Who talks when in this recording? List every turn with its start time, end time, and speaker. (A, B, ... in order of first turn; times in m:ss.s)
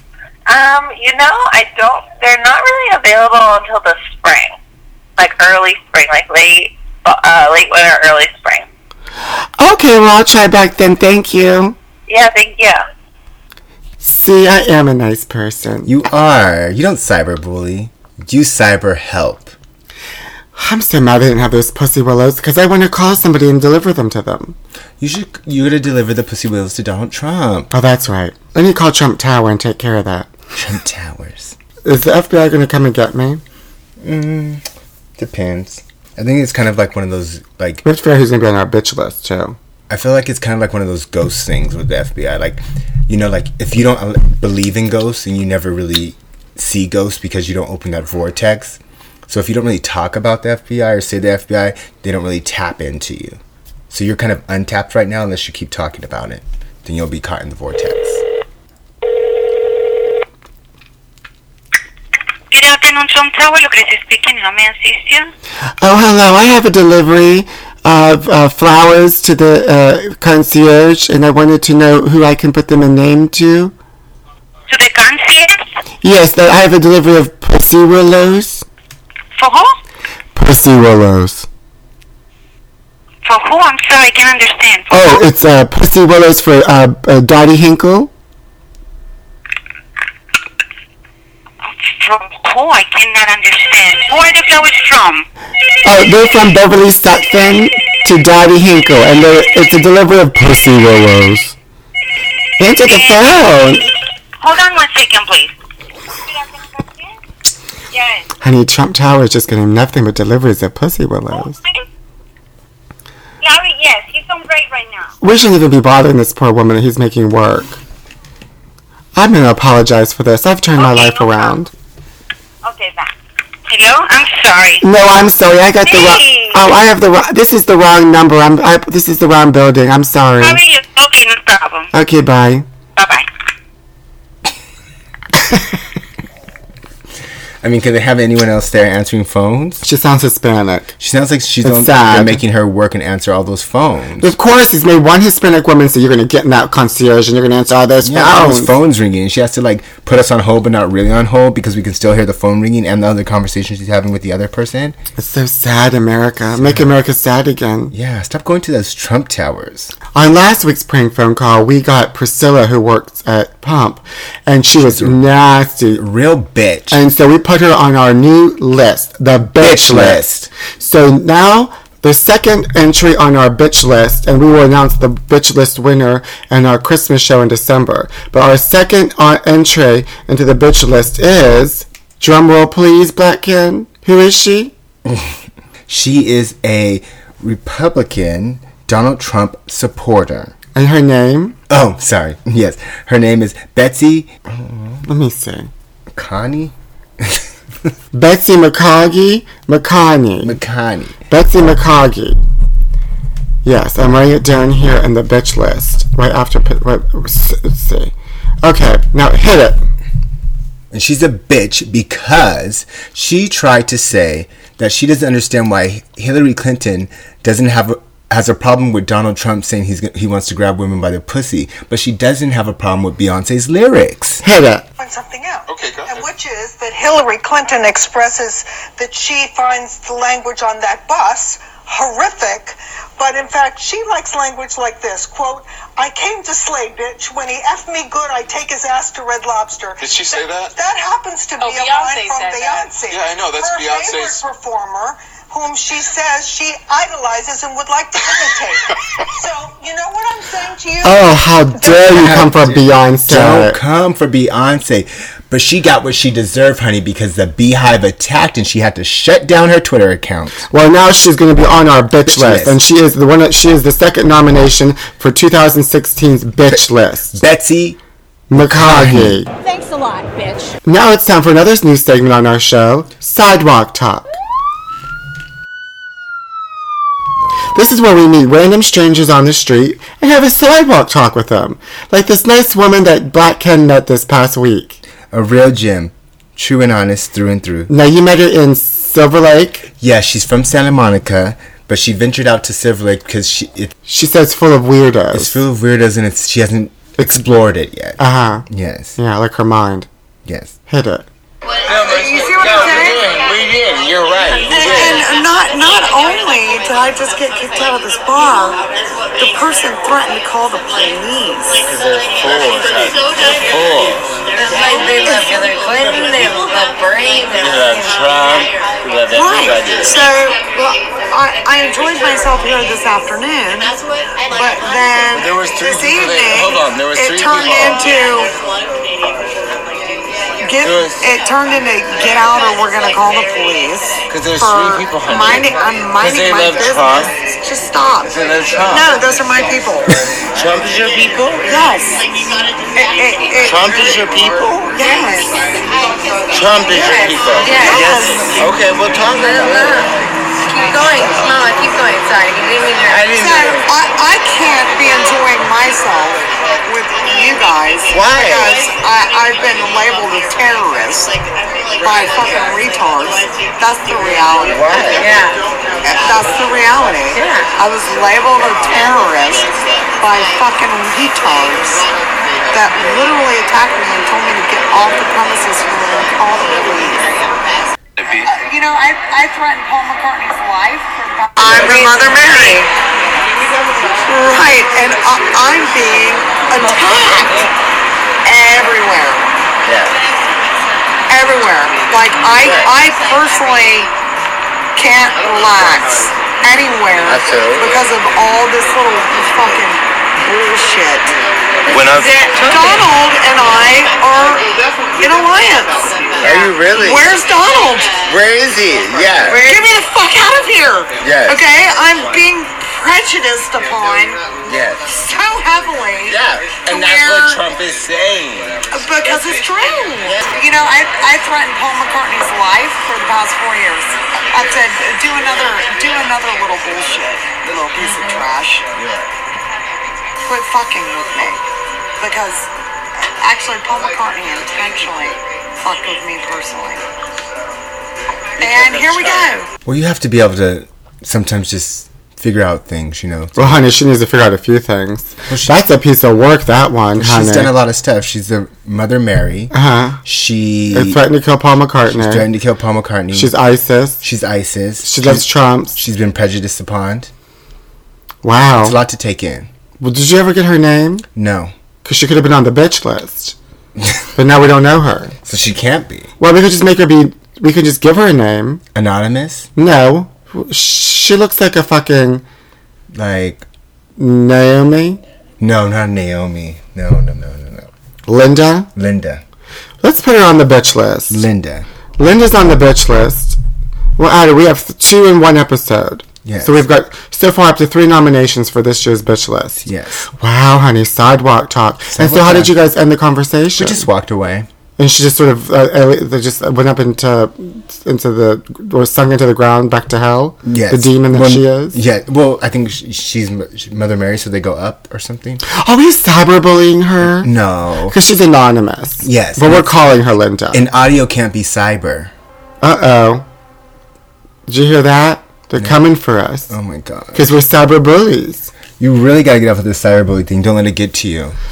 0:00.5-0:04.5 A
0:05.2-0:08.6 A
0:09.6-0:11.8 B
0:12.1-0:12.8 A
0:14.0-0:15.9 B
0:15.8-0:19.5 C
0:20.5-0:24.6 B
0:25.0-0:27.7 C
0:27.7-0:30.3 B
0:30.5-0:31.6 C
0:31.8-0:33.4 B
0:34.0-0:34.6 C
0:35.2-0:37.8 C
0:37.8-0:39.6 B
0:39.9-0:53.4 C
0:53.9-0:58.2 C
1:02.5-1:05.3 A
1:05.8-1:13.7 B
1:14.7-1:15.6 A
1:16.0-1:18.6 B
1:19.4-1:19.7 A
1:20.3-1:21.5 B
1:23.2-1:25.2 A
1:24.9-1:28.1 B
1:31.8-1:35.2 A
1:35.8-1:41.6 B
1:42.6-1:43.9 B
1:42.8-1:43.2 A
1:44.4-1:45.5 A
1:46.3-1:47.1 A
1:47.9-1:48.3 A
1:48.4-1:51.6 B
1:51.4-1:51.8 A
1:53.4-1:55.1 A
1:55.2-1:57.8 B
1:59.2-2:01.7 B
2:00.8-2:01.5 A
2:02.6-2:03.1 A
2:03.7-2:04.8 A
2:04.8-2:10.6 B
2:05.8-2:06.6 A
2:10.4-2:11.9 A
2:11.9-2:12.6 B
2:13.0-2:13.2 A
2:17.6-2:19.8 C
2:19.8-2:20.9 B
2:21.0-2:24.3 C
2:21.6-2:22.4 B
2:24.2-2:28.7 B
2:28.0-2:35.0 C
2:35.2-2:37.9 B
2:36.5-2:36.9 C
2:37.9-2:39.9 C
2:40.1-2:46.0 B
2:44.7-2:45.2 C
2:46.0-2:47.0 C
2:46.9-2:50.2 B
2:49.6-2:50.5 C
2:50.8-3:04.7 B
3:05.0-3:05.3 C
3:05.9-3:10.5 C
3:10.7-3:11.6 B
3:11.7-3:15.0 C
3:15.0-3:15.7 B
3:16.1-3:17.5 C
3:18.1-3:20.6 B
3:20.4-3:21.2 C
3:21.3-3:22.4 B
3:23.6-3:29.8 B
3:30.9-3:44.4 C
3:44.4-3:44.8 B
3:45.0-4:12.0 D
4:01.9-4:02.6 E
4:11.0-4:13.8 B
4:12.0-4:20.7 C
4:20.7-4:27.4 B
4:22.2-4:22.8 C
4:26.7-4:28.0 C
4:28.5-4:29.5 B
4:28.5-4:29.4 C
4:29.6-4:30.8 E
4:30.8-4:34.4 B
4:37.7-4:45.0 B
4:45.3-4:47.9 C
4:47.9-4:49.9 B
4:50.0-4:53.9 C
4:54.1-4:55.6 B
4:55.3-4:59.2 C
4:58.2-4:58.6 B
4:59.2-5:00.1 B
5:00.4-5:00.7 C
5:00.9-5:01.2 B
5:01.9-5:05.3 F
5:01.9-5:03.3 D
5:04.7-5:08.8 D
5:09.4-5:11.8 D
5:11.9-5:14.4 F
5:14.5-5:18.2 G
5:17.6-5:20.2 F
5:19.3-5:24.0 D
5:24.5-5:28.5 D
5:25.3-5:28.2 F
5:30.6-5:40.2 D
5:30.8-5:31.3 F
5:34.3-5:37.3 F
5:38.2-5:39.2 F
5:40.5-5:41.6 F
5:41.6-5:42.2 D
5:43.0-5:44.2 D
5:43.6-5:44.9 F
5:44.9-5:45.5 D
5:45.0-5:45.6 G
5:46.5-5:50.0 F
5:46.9-5:48.1 G
5:47.7-5:48.7 D
5:49.3-5:53.2 G
5:53.1-5:53.9 F
5:53.3-6:01.4 D
5:58.1-5:58.8 F
6:02.0-6:05.2 D
6:04.6-6:05.3 F
6:05.2-6:05.6 G
6:06.0-6:12.1 D
6:07.3-6:07.7 G
6:12.7-6:17.3 D
6:18.2-6:22.9 D
6:21.6-6:22.2 F
6:24.2-6:27.6 D
6:28.4-6:29.6 D
6:29.8-6:30.2 F
6:31.3-6:34.1 D
6:32.5-6:32.9 F
6:35.0-6:41.3 D
6:37.2-6:38.0 F
6:41.9-6:43.1 F
6:42.0-6:44.6 D
6:45.2-6:48.1 D
6:46.4-6:47.3 F
6:48.2-6:49.8 F
6:49.5-6:54.4 D
6:51.2-6:51.6 F
6:54.6-6:55.2 F
6:55.2-6:57.6 D
6:56.3-6:58.9 F
6:58.9-7:08.9 D
7:09.0-7:09.2 F
7:10.4-7:11.6 D
7:12.2-7:12.7 D
7:13.4-7:17.0 D
7:18.6-7:19.7 D
7:18.6-7:19.5 F
7:19.8-7:23.8 C
7:23.6-7:27.7 B
7:25.5-7:25.7 C
7:27.2-7:29.7 C
7:29.7-7:30.2 B
7:30.2-7:31.2 C
7:30.9-7:32.5 B
7:32.1-7:33.6 C
7:33.3-7:34.2 B
7:34.2-7:37.3 C
7:35.0-7:36.0 B
7:38.4-7:39.0 B
7:38.8-7:39.7 C
7:40.0-7:41.2 B
7:41.3-7:41.7 C
7:42.0-7:43.6 B
7:44.4-7:45.4 B
7:45.4-7:46.3 C
7:46.4-7:48.8 B
7:48.9-7:49.7 C
7:49.8-7:52.4 B
7:53.1-7:53.6 C
7:54.2-7:55.2 B
7:55.6-7:57.9 C
7:58.3-7:58.9 B
7:58.9-7:59.4 C
8:00.0-8:01.5 B
8:01.3-8:01.9 C
8:02.2-8:03.6 B
8:04.2-8:09.8 B
8:06.4-8:06.8 C
8:09.8-8:10.2 C
8:10.4-8:14.0 B
8:12.1-8:12.8 C
8:13.7-8:14.7 C
8:15.0-8:22.0 B
8:20.6-8:25.6 C
8:25.6-8:27.5 B
8:27.2-8:28.2 C
8:28.1-8:30.8 B
8:29.2-8:30.0 C
8:30.7-8:32.3 C
8:32.8-8:33.4 B
8:34.7-8:36.7 B
8:36.7-8:37.4 C
8:37.3-8:38.7 B
8:39.0-8:41.6 C